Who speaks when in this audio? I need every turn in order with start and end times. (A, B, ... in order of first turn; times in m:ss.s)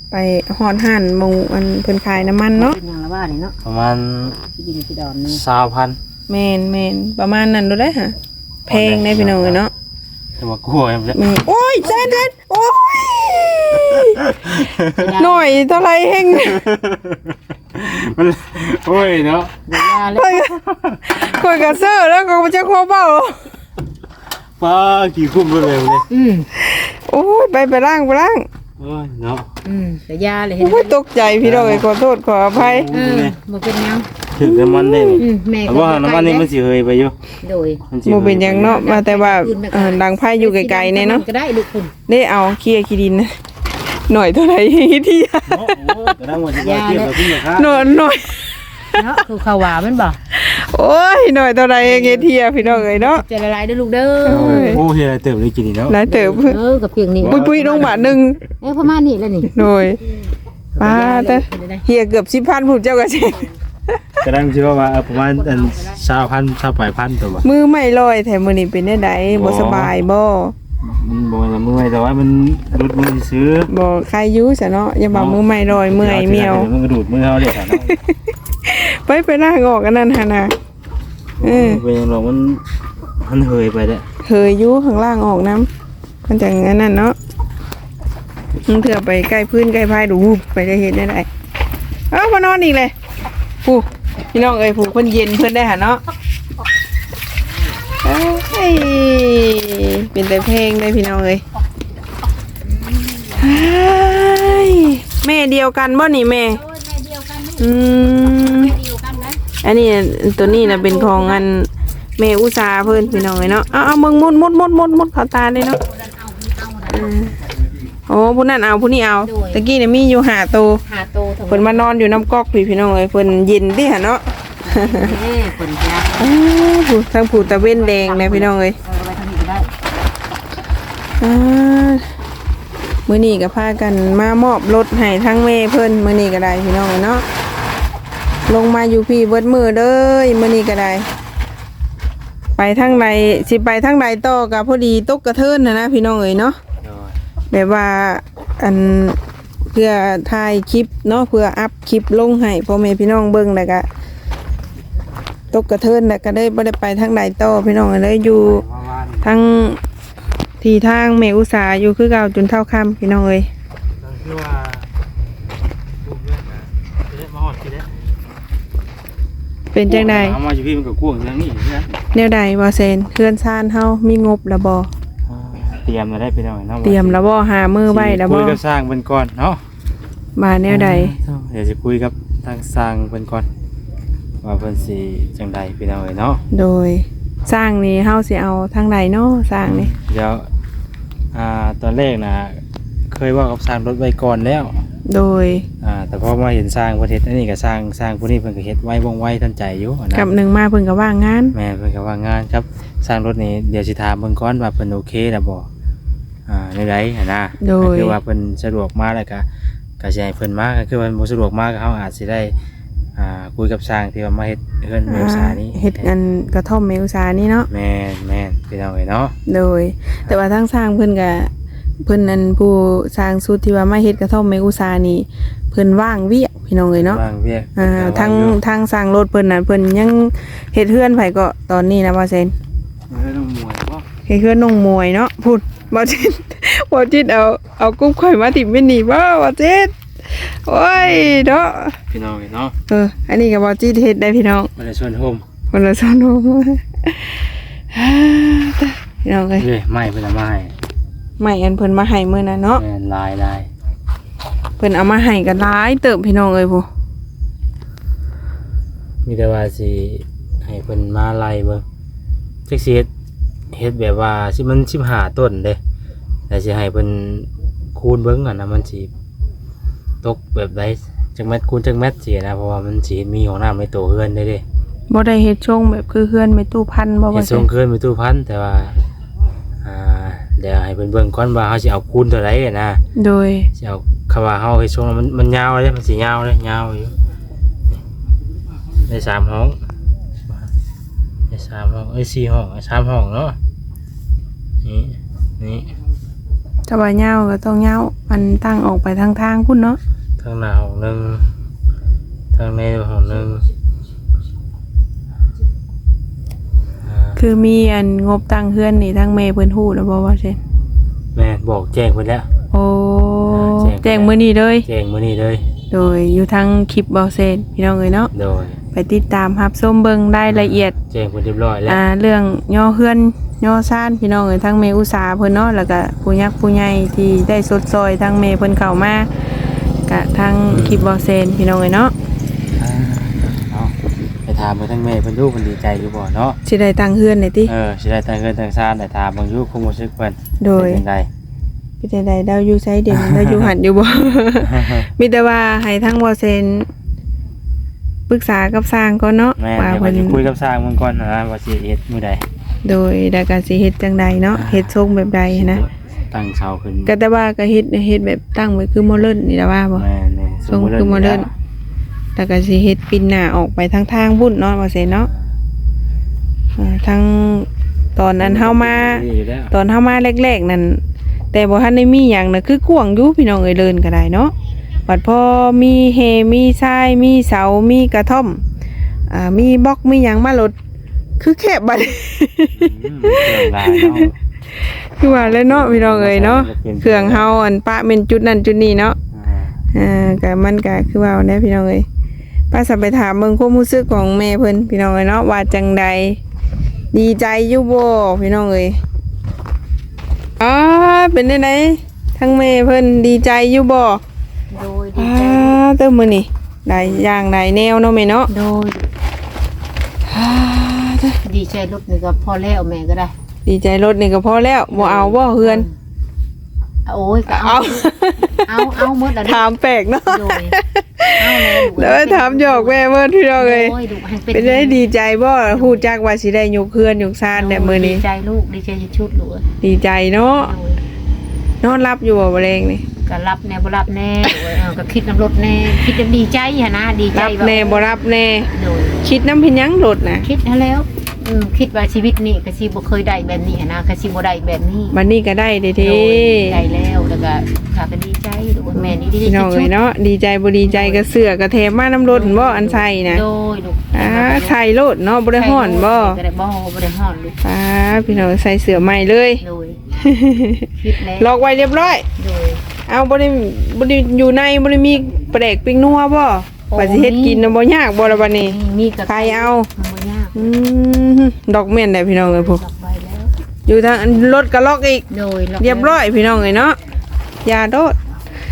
0:00.1-0:02.8 A
0:02.5-0:03.6 B
0:03.6-0:04.3 C
0:04.4-0:05.4 B
0:05.2-0:06.0 C
0:06.3-0:08.1 A
0:08.6-0:09.7 A
0:08.7-0:09.6 C
0:10.4-0:11.2 C
0:11.1-0:14.2 A
0:11.8-0:12.2 B
0:14.0-0:15.1 C
0:14.9-0:15.6 B
0:15.1-0:16.7 A
0:16.3-0:19.6 C
0:19.7-0:20.4 B
0:19.7-0:20.6 A
0:20.6-0:21.2 C
0:21.1-0:23.5 A
0:24.6-0:26.0 C
0:26.1-0:26.5 B
0:26.5-0:28.5 A
0:28.8-0:29.5 C
0:29.6-0:31.0 B
0:30.6-0:32.9 A
0:31.4-0:31.9 C
0:32.5-0:33.3 C
0:32.9-0:34.1 B
0:34.3-0:37.2 C
0:34.4-0:35.2 A
0:35.2-0:36.5 B
0:37.4-0:37.8 B
0:37.9-0:38.8 C
0:38.0-0:41.2 A
0:38.6-0:41.9 B
0:42.1-0:43.3 A
0:44.1-0:45.8 A
0:45.5-0:47.9 C
0:46.5-0:47.4 B
0:47.4-0:49.0 A
0:48.9-0:50.2 B
0:50.3-0:53.2 A
0:51.8-0:54.8 B
0:54.2-0:54.8 A
0:54.3-0:56.0 C
0:55.9-0:56.6 A
0:56.1-0:59.6 B
0:57.2-0:58.0 C
0:57.2-0:58.4 A
0:59.5-1:00.0 A
1:00.7-1:01.8 B
1:00.8-1:04.0 A
1:04.2-1:07.4 C
1:05.1-1:06.0 B
1:07.4-1:10.5 A
1:09.3-1:09.9 C
1:10.8-1:13.7 C
1:13.7-1:16.7 A
1:15.1-1:17.9 C
1:17.7-1:20.5 A
1:21.4-1:22.6 C
1:21.4-1:21.8 A
1:23.2-1:24.0 C
1:24.2-1:25.7 A
1:26.2-1:27.2 A
1:28.6-1:31.3 A
1:32.1-1:32.9 A
1:33.6-1:36.0 A
1:38.0-1:41.4 A
1:42.8-1:43.7 B
1:43.4-1:46.6 A
1:46.5-1:47.7 B
1:47.6-1:48.7 A
1:48.2-1:49.4 B
1:49.6-1:55.8 A
1:50.4-1:51.5 B
1:52.9-1:53.6 B
1:55.8-1:57.3 B
1:56.9-1:57.3 A
1:58.1-2:00.8 A
1:59.2-1:59.6 B
2:00.8-2:01.9 B
2:01.5-2:05.2 A
2:04.6-2:06.4 B
2:06.2-2:08.8 A
2:07.3-2:09.7 B
2:11.2-2:12.1 A
2:13.0-2:17.2 A
2:18.5-2:21.1 A
2:22.6-2:26.6 A
2:23.0-2:23.3 C
2:26.8-2:27.1 C
2:27.5-2:29.2 A
2:29.7-2:33.9 A
2:35.5-2:38.6 A
2:38.3-2:39.4 C
2:39.2-2:39.8 A
2:40.6-2:43.5 A
2:44.0-2:44.9 C
2:46.0-2:47.9 C
2:49.7-2:50.4 A
2:49.9-2:51.9 C
2:52.1-2:54.9 A
2:55.3-2:57.2 C
2:56.8-2:58.6 A
2:57.9-2:59.6 C
3:00.4-3:01.2 A
3:00.7-3:03.5 C
3:04.4-3:06.4 C
3:06.5-3:09.9 A
3:09.6-3:10.4 C
3:11.3-3:12.6 C
3:13.1-3:14.8 C
3:15.0-3:15.7 A
3:15.8-3:20.3 C
3:20.1-3:21.5 A
3:21.5-3:25.7 C
3:26.5-3:29.4 C
3:27.6-3:28.2 A
3:30.0-3:32.5 C
3:33.2-3:36.1 C
3:35.1-3:37.7 A
3:37.7-3:39.3 C
3:39.4-3:41.5 A
3:42.0-3:47.2 A
3:46.9-3:48.6 C
3:47.8-3:52.5 A
3:53.1-3:54.0 C
3:54.3-4:02.0 A
4:01.0-4:02.7 C
4:02.9-4:04.7 A
4:04.8-4:05.4 C
4:05.7-4:09.7 A
4:09.6-4:10.7 C
4:11.4-4:12.8 A
4:12.7-4:13.7 C
4:14.8-4:16.9 A
4:19.2-4:21.8 C
4:22.7-4:23.1 C
4:23.7-4:25.8 C
4:26.5-4:29.1 C
4:30.2-4:34.6 C
4:35.1-4:37.7 A
4:37.3-4:39.0 C
4:39.8-4:43.0 C
4:43.2-4:43.7 A
4:43.8-4:47.1 C
4:49.1-4:49.8 C
4:51.5-4:53.6 C
4:54.8-4:55.9 C
4:56.9-5:00.0 A
5:00.4-5:01.4 C
5:02.5-5:03.6 C
5:07.0-5:07.4 C
5:07.4-5:10.6 A
5:11.3-5:12.5 C
5:12.7-5:14.8 A
5:13.5-5:15.6 C
5:15.9-5:18.3 A
5:18.3-5:18.8 C
5:18.9-5:21.0 A
5:20.5-5:22.0 C
5:21.8-5:29.3 A
5:30.1-5:32.1 A
5:30.7-5:31.0 C
5:32.8-5:33.9 C
5:34.4-5:36.6 C
5:36.6-5:37.7 A
5:37.6-5:41.3 C
5:40.6-5:41.0 A
5:42.0-5:46.9 A
5:43.1-5:43.7 C
5:44.6-5:45.0 C
5:48.3-5:50.4 A
5:49.6-5:52.4 C
5:52.8-5:55.8 A
5:54.5-5:54.9 C
5:55.5-5:57.1 C
5:57.0-6:00.0 A
5:59.9-6:01.5 C
6:00.7-6:01.5 A
6:02.4-6:05.3 A
6:05.1-6:05.5 C
6:06.8-6:11.0 A
6:08.4-6:09.7 C
6:11.5-6:14.5 A
6:15.1-6:18.6 A
6:19.3-6:20.7 A
6:21.4-6:29.2 A
6:22.7-6:24.4 C
6:25.2-6:27.5 C
6:29.3-6:29.7 C
6:29.9-6:32.0 A
6:32.7-6:36.4 A
6:37.1-6:39.0 A
6:40.6-6:44.2 A
6:44.7-6:45.8 B
6:45.2-6:48.5 A
6:46.9-6:47.2 B
6:48.5-6:49.1 B
6:50.3-6:51.4 A
6:51.4-6:53.3 B
6:53.6-6:55.8 A
6:54.9-6:55.9 B
6:57.0-6:59.7 B
6:57.5-7:03.9 A
7:00.2-7:00.8 B
7:01.4-7:03.0 B
7:03.6-7:05.0 B
7:04.5-7:08.2 A
7:05.7-7:06.1 B
7:07.5-7:09.7 B
7:09.8-7:10.7 A
7:10.4-7:11.0 B
7:11.8-7:13.0 A
7:13.2-7:18.2 B
7:17.3-7:18.7 A
7:18.7-7:19.2 B
7:19.2-7:20.4 A
7:20.4-7:25.2 B
7:25.1-7:26.8 A
7:26.0-7:30.0 B
7:28.9-7:33.4 A
7:30.8-7:31.3 B
7:32.2-7:34.8 B
7:34.1-7:36.4 A
7:35.5-7:37.6 B
7:37.6-7:40.8 A
7:38.9-7:40.0 B
7:41.0-7:42.8 B
7:41.4-7:42.2 A
7:43.1-7:48.7 A
7:46.9-7:50.6 B
7:49.3-7:49.9 A
7:50.5-7:52.8 A
7:52.3-7:53.5 B
7:53.8-7:55.2 A
7:55.3-7:56.2 B
7:55.8-7:57.0 A
7:57.6-7:58.1 A